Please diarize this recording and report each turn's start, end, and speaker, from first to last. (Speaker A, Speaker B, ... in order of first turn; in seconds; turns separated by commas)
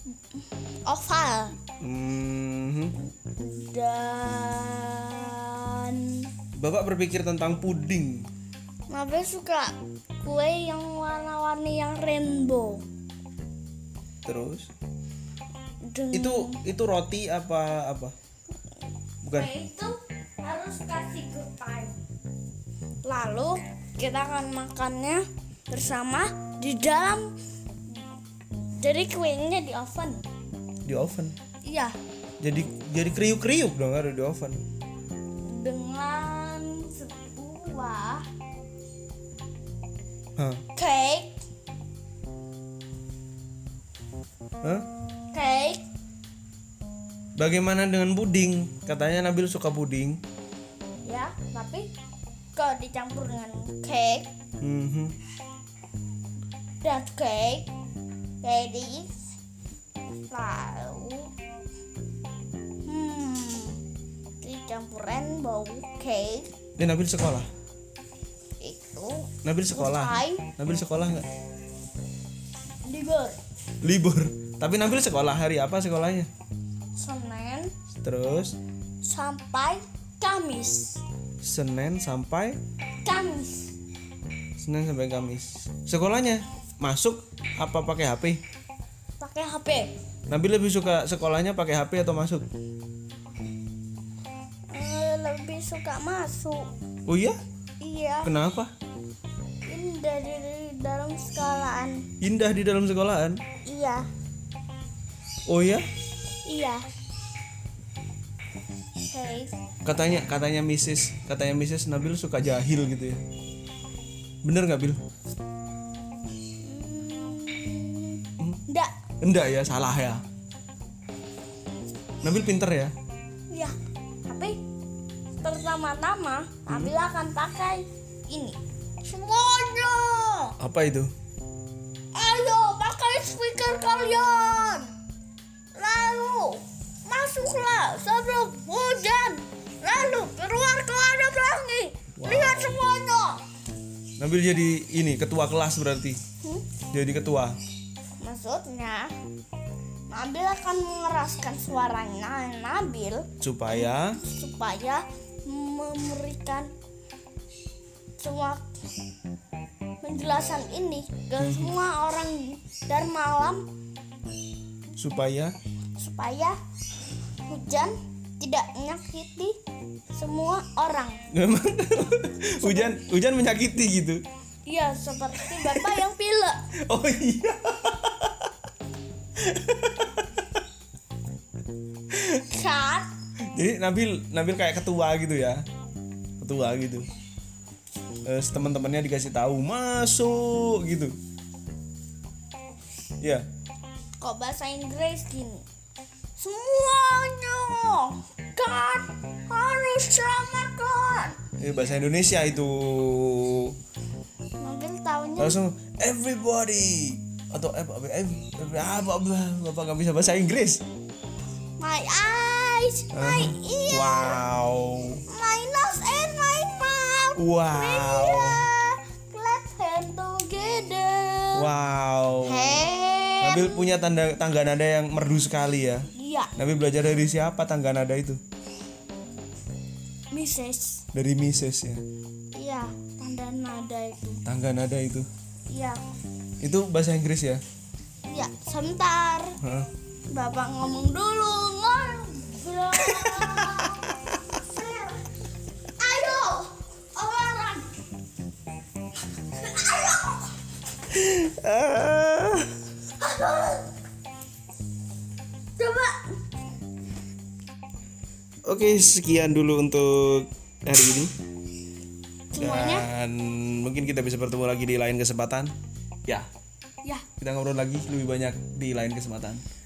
Speaker A: 0.3-1.6, Speaker B: 1.8-3.0, Speaker A: 3.2-6.3, Speaker B: 6.5-8.3, Speaker A: 8.9-12.8, Speaker B: 14.2-14.7, Speaker A: 15.8-16.6, Speaker B: 16.1-18.1, Speaker B: 19.2-19.5, Speaker A: 19.3-22.0, Speaker A: 23.0-27.3, Speaker A: 28.8-30.2, Speaker B: 30.8-31.3, Speaker A: 31.6-31.9, Speaker B: 32.4-34.6, Speaker A: 35.4-38.2, Speaker B: 40.4-40.6, Speaker A: 40.8-41.4, Speaker A: 45.3-45.8, Speaker B: 47.4-50.2, Speaker A: 51.0-51.9, Speaker A: 52.5-54.3, Speaker B: 54.6-55.1, Speaker A: 56.8-57.7, Speaker A: 58.4-59.1, Speaker A: 60.3-61.3, Speaker A: 62.8-63.8, Speaker A: 64.4-66.5, Speaker B: 66.8-67.5, Speaker A: 68.6-70.5, Speaker B: 69.4-71.3, Speaker A: 72.8-73.4, Speaker B: 73.8-76.3, Speaker A: 77.0-77.7, Speaker B: 78.0-78.6, Speaker A: 79.0-81.0, Speaker B: 81.4-82.6, Speaker A: 83.0-83.7, Speaker B: 84.6-88.4, Speaker A: 89.2-89.9, Speaker B: 90.3-92.5, Speaker A: 94.7-96.7, Speaker B: 97.0-97.4, Speaker A: 97.8-98.3, Speaker B: 98.2-98.7, Speaker A: 99.7-102.0, Speaker B: 102.2-103.4, Speaker A: 103.6-104.1, Speaker B: 105.5-105.8, Speaker A: 106.4-106.8, Speaker A: 109.1-109.5, Speaker B: 109.8-113.2, Speaker B: 114.4-115.0, Speaker A: 116.6-118.9, Speaker B: 119.2-120.2, Speaker B: 122.2-122.9, Speaker A: 123.5-124.6, Speaker A: 125.4-130.5, Speaker B: 126.7-126.9, Speaker B: 130.6-131.1, Speaker A: 132.1-134.9, Speaker A: 135.7-143.4, Speaker B: 142.2-142.8, Speaker B: 144.2-146.2, Speaker B: 146.9-147.6, Speaker A: 148.2-149.1, Speaker A: 150.1-156.7, Speaker B: 153.4-154.2, Speaker A: 158.2-158.6, Speaker A: 160.0-163.7, Speaker B: 161.4-161.7, Speaker B: 164.9-165.5, Speaker A: 166.0-166.6, Speaker A: 167.5-169.5, Speaker A: 170.1-171.2, Speaker B: 171.3-174.2, Speaker A: 172.6-173.0, Speaker A: 174.7-176.6, Speaker B: 175.4-176.0, Speaker B: 176.8-178.5, Speaker B: 179.4-180.4, Speaker A: 182.3-183.1, Speaker B: 183.5-185.6, Speaker B: 186.4-187.1, Speaker B: 188.2-191.1, Speaker A: 194.2-195.6, Speaker A: 196.4-201.3, Speaker B: 201.6-203.7, Speaker A: 204.6-205.6, Speaker B: 205.4-210.8, Speaker A: 211.8-214.4, Speaker B: 213.1-215.2, Speaker A: 215.3-221.7, Speaker B: 217.3-218.7, Speaker B: 221.5-222.8, Speaker A: 222.4-223.9, Speaker B: 223.4-228.4, Speaker A: 226.1-226.5, Speaker A: 230.3-231.0, Speaker B: 231.1-232.0, Speaker A: 232.5-234.4, Speaker B: 234.4-235.3, Speaker A: 235.7-236.0, Speaker B: 236.6-237.6, Speaker A: 238.2-239.6, Speaker B: 239.6-239.9, Speaker A: 240.3-245.2, Speaker B: 242.9-244.2, Speaker A: 246.0-247.9, Speaker A: 249.4-250.5, Speaker B: 251.1-252.7, Speaker A: 253.2-253.8, Speaker A: 255.8-256.4, Speaker B: 258.6-261.3, Speaker A: 262.5-263.1, Speaker B: 262.6-265.7, Speaker B: 267.4-269.6